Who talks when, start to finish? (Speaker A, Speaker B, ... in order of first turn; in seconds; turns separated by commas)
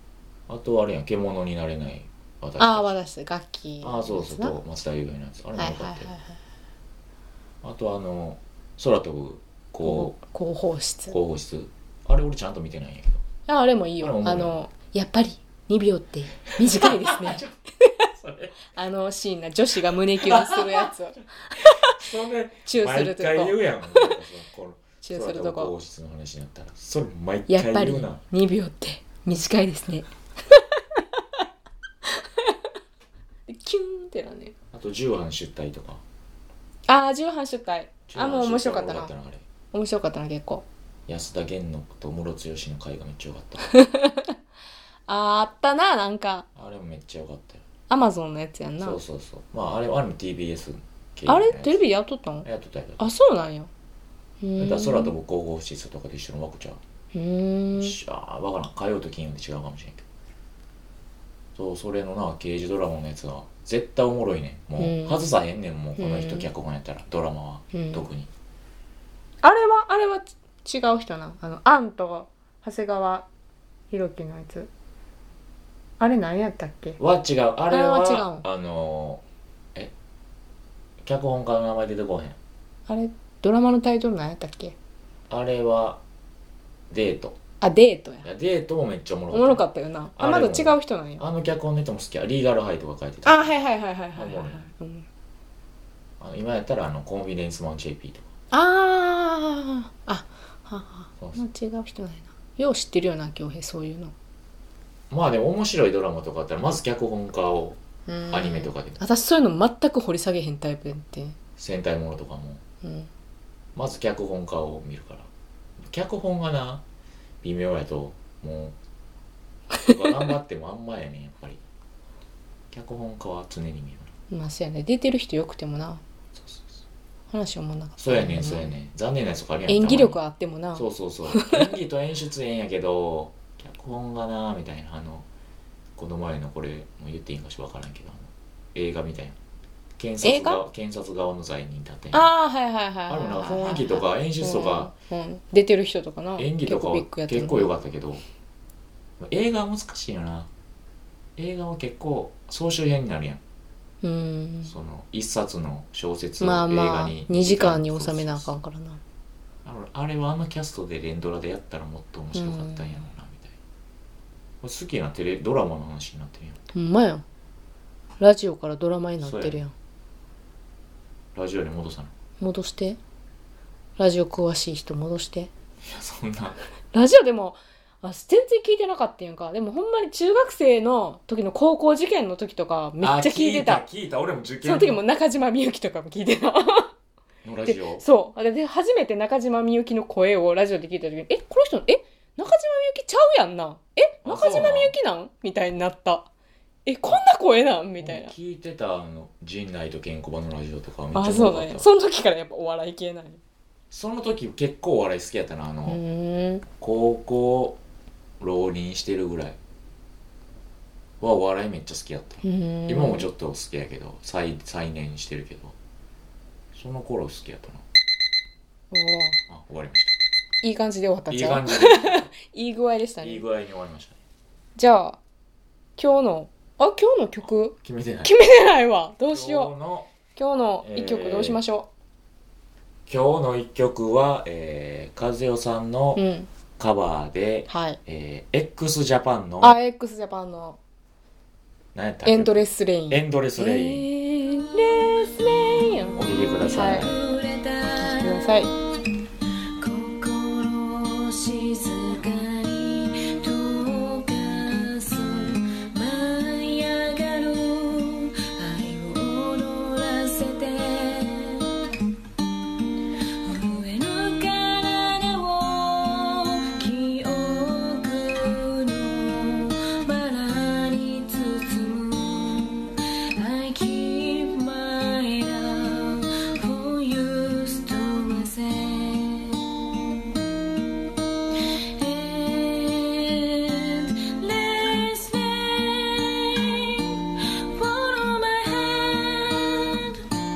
Speaker A: 0.5-3.0, Speaker B: 2.6-4.6, Speaker A: 3.8-6.1, Speaker B: 5.5-6.4, Speaker A: 7.6-10.2, Speaker B: 9.8-11.2, Speaker A: 11.1-13.2, Speaker B: 13.5-17.5, Speaker A: 14.0-14.6, Speaker A: 16.6-17.5, Speaker A: 18.1-18.7, Speaker B: 18.7-22.0, Speaker A: 20.1-20.9, Speaker A: 21.6-28.2, Speaker B: 22.6-24.2, Speaker B: 25.0-25.7, Speaker B: 27.5-30.6, Speaker B: 33.5-34.5, Speaker A: 34.7-36.0, Speaker B: 36.9-39.1, Speaker A: 38.1-39.4, Speaker B: 39.7-40.6, Speaker A: 41.1-43.7, Speaker B: 43.7-44.3, Speaker B: 45.1-46.5, Speaker A: 46.5-47.6, Speaker B: 47.9-49.0, Speaker A: 48.8-51.8, Speaker B: 51.3-52.5, Speaker A: 52.4-53.0, Speaker B: 53.0-53.7, Speaker B: 54.4-55.1, Speaker A: 54.6-56.8, Speaker B: 57.1-58.0, Speaker A: 57.8-60.1, Speaker A: 61.6-68.3, Speaker B: 64.8-65.2, Speaker B: 66.0-66.5, Speaker B: 67.7-68.0, Speaker B: 69.4-73.3, Speaker B: 73.9-74.7, Speaker B: 76.0-77.0, Speaker A: 77.0-79.2, Speaker B: 77.7-78.5, Speaker A: 81.0-82.4, Speaker B: 82.9-84.8, Speaker A: 85.3-86.0, Speaker A: 86.9-87.4, Speaker B: 87.6-88.3, Speaker A: 88.2-93.5, Speaker B: 89.3-91.3, Speaker B: 93.2-95.1, Speaker A: 94.2-94.6, Speaker A: 96.2-98.3, Speaker B: 98.5-104.1, Speaker A: 105.1-107.8, Speaker B: 108.1-111.4, Speaker A: 108.3-109.0, Speaker A: 111.6-112.6, Speaker B: 112.8-113.1, Speaker A: 113.8-115.3, Speaker A: 115.9-116.8, Speaker A: 117.4-118.8, Speaker A: 119.9-121.6, Speaker A: 122.7-124.1, Speaker B: 124.3-126.0, Speaker A: 126.3-126.8, Speaker B: 127.3-128.7, Speaker A: 128.0-130.2, Speaker B: 129.7-131.7, Speaker A: 130.8-135.3, Speaker A: 136.0-139.4, Speaker A: 140.0-142.3, Speaker B: 140.2-140.6, Speaker B: 142.1-147.7, Speaker A: 143.1-144.9, Speaker A: 146.4-148.2, Speaker A: 149.2-150.5, Speaker A: 151.4-153.4, Speaker B: 154.0-154.7, Speaker A: 154.7-158.5, Speaker B: 156.4-159.0, Speaker A: 159.6-163.5, Speaker B: 162.3-163.0, Speaker A: 164.6-166.6, Speaker B: 166.7-167.2, Speaker B: 168.2-169.7, Speaker A: 169.2-169.6, Speaker A: 171.3-172.1, Speaker B: 172.4-173.0, Speaker B: 174.0-175.5, Speaker A: 175.8-176.6, Speaker B: 176.9-183.8, Speaker A: 183.0-185.0, Speaker B: 184.6-186.9, Speaker A: 187.4-188.1, Speaker B: 187.7-196.3, Speaker A: 194.2-194.9, Speaker B: 196.9-198.3, Speaker A: 198.0-201.9, Speaker B: 201.1-203.4, Speaker A: 203.9-206.0, Speaker B: 205.9-206.7, Speaker A: 206.8-207.8, Speaker A: 208.4-209.6, Speaker A: 211.2-215.8, Speaker B: 212.4-213.3, Speaker A: 216.7-217.8, Speaker B: 218.9-219.4, Speaker A: 219.5-220.2, Speaker B: 220.6-223.4, Speaker A: 221.3-222.3, Speaker A: 223.2-224.2, Speaker B: 224.8-225.2, Speaker B: 226.0-229.7, Speaker A: 227.8-228.3, Speaker A: 229.3-230.1, Speaker B: 230.3-231.9, Speaker A: 230.8-231.6, Speaker A: 233.1-236.3, Speaker B: 236.2-236.5, Speaker A: 236.8-239.8, Speaker B: 237.7-238.0, Speaker B: 239.6-240.8, Speaker A: 241.9-244.1, Speaker B: 242.3-247.1, Speaker A: 246.2-247.2, Speaker C: 247.0-248.4, Speaker B: 247.8-248.7, Speaker C: 249.8-261.7, Speaker C: 263.4-279.7, Speaker C: 281.9-290.3